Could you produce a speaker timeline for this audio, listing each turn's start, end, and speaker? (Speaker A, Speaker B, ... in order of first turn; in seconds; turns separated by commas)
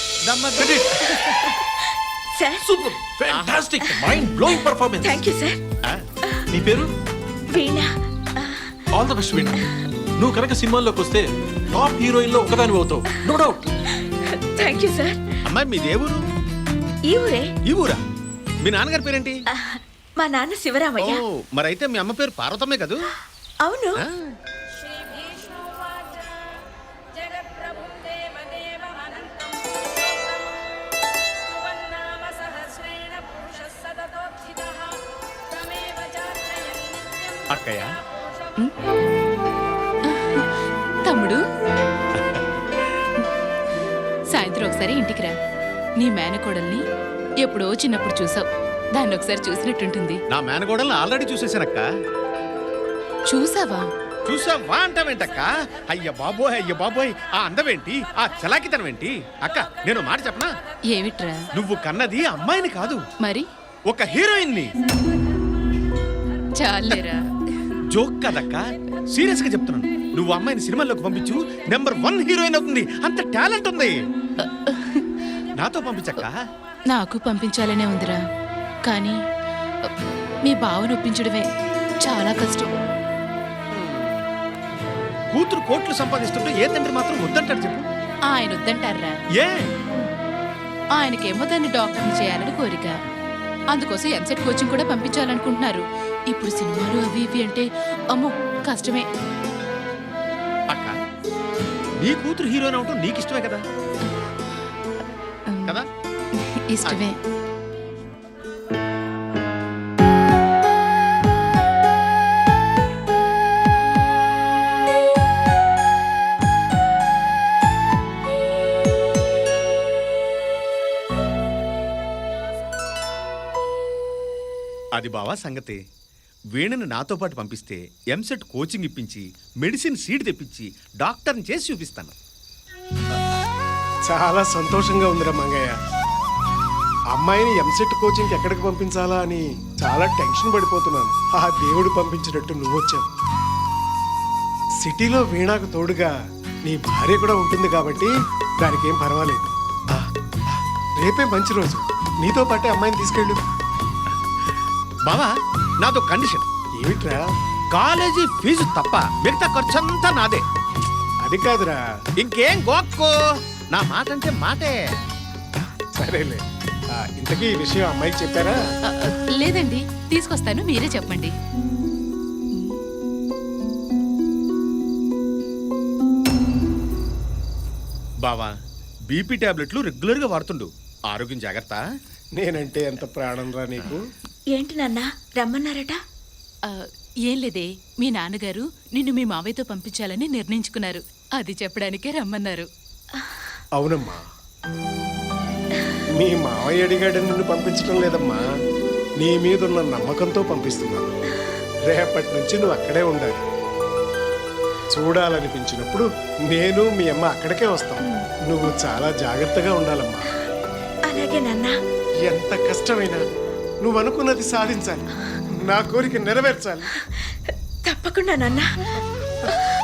Speaker A: 0.2-1.2, Speaker B: 1.1-2.8, Speaker C: 2.6-5.2, Speaker A: 3.3-3.6, Speaker B: 3.8-4.3, Speaker B: 4.9-5.6, Speaker C: 6.5-6.9, Speaker B: 7.5-8.8, Speaker C: 8.9-9.6, Speaker C: 10.2-13.7, Speaker B: 13.9-15.4, Speaker A: 15.4-16.2, Speaker B: 17.1-17.5, Speaker A: 17.6-18.0, Speaker A: 18.6-19.4, Speaker B: 19.5-21.2, Speaker A: 21.0-23.0, Speaker B: 23.6-24.0, Speaker A: 37.5-37.9, Speaker D: 40.1-40.4, Speaker D: 41.0-41.4, Speaker A: 42.1-42.4, Speaker D: 44.3-45.4, Speaker D: 46.0-46.8, Speaker D: 47.4-50.2, Speaker A: 50.3-51.8, Speaker D: 53.3-53.9, Speaker A: 54.2-60.5, Speaker D: 60.9-61.3, Speaker A: 61.5-63.0, Speaker A: 63.9-64.7, Speaker D: 66.5-67.2, Speaker A: 67.9-73.9, Speaker D: 74.4-75.1, Speaker A: 75.6-76.4, Speaker D: 76.9-78.2, Speaker D: 78.8-79.2, Speaker D: 80.4-81.5, Speaker D: 82.0-82.7, Speaker A: 83.7-84.2, Speaker A: 85.3-87.8, Speaker D: 88.3-89.2, Speaker A: 89.3-89.7, Speaker D: 91.0-92.9, Speaker D: 93.7-99.0, Speaker A: 102.0-103.6, Speaker D: 105.5-105.8, Speaker D: 106.3-107.2, Speaker A: 124.9-125.8, Speaker A: 126.5-132.1, Speaker E: 134.1-135.7, Speaker E: 137.2-143.1, Speaker E: 144.8-146.1, Speaker E: 146.7-150.0, Speaker E: 150.5-153.4, Speaker A: 155.1-156.5, Speaker E: 156.8-157.2, Speaker A: 157.7-160.4, Speaker E: 161.2-161.8, Speaker A: 162.2-164.8, Speaker E: 165.9-166.4, Speaker E: 166.9-168.6, Speaker D: 168.9-171.3, Speaker A: 178.2-178.5, Speaker A: 179.1-181.8, Speaker E: 182.4-184.0, Speaker B: 184.5-186.0, Speaker D: 186.7-192.7, Speaker E: 193.8-194.2, Speaker E: 196.2-198.4, Speaker E: 199.2-201.1, Speaker E: 201.9-203.4, Speaker E: 204.9-210.2, Speaker B: 211.1-211.8, Speaker E: 212.3-213.2, Speaker E: 213.8-215.0, Speaker E: 215.6-216.9, Speaker B: 217.1-218.7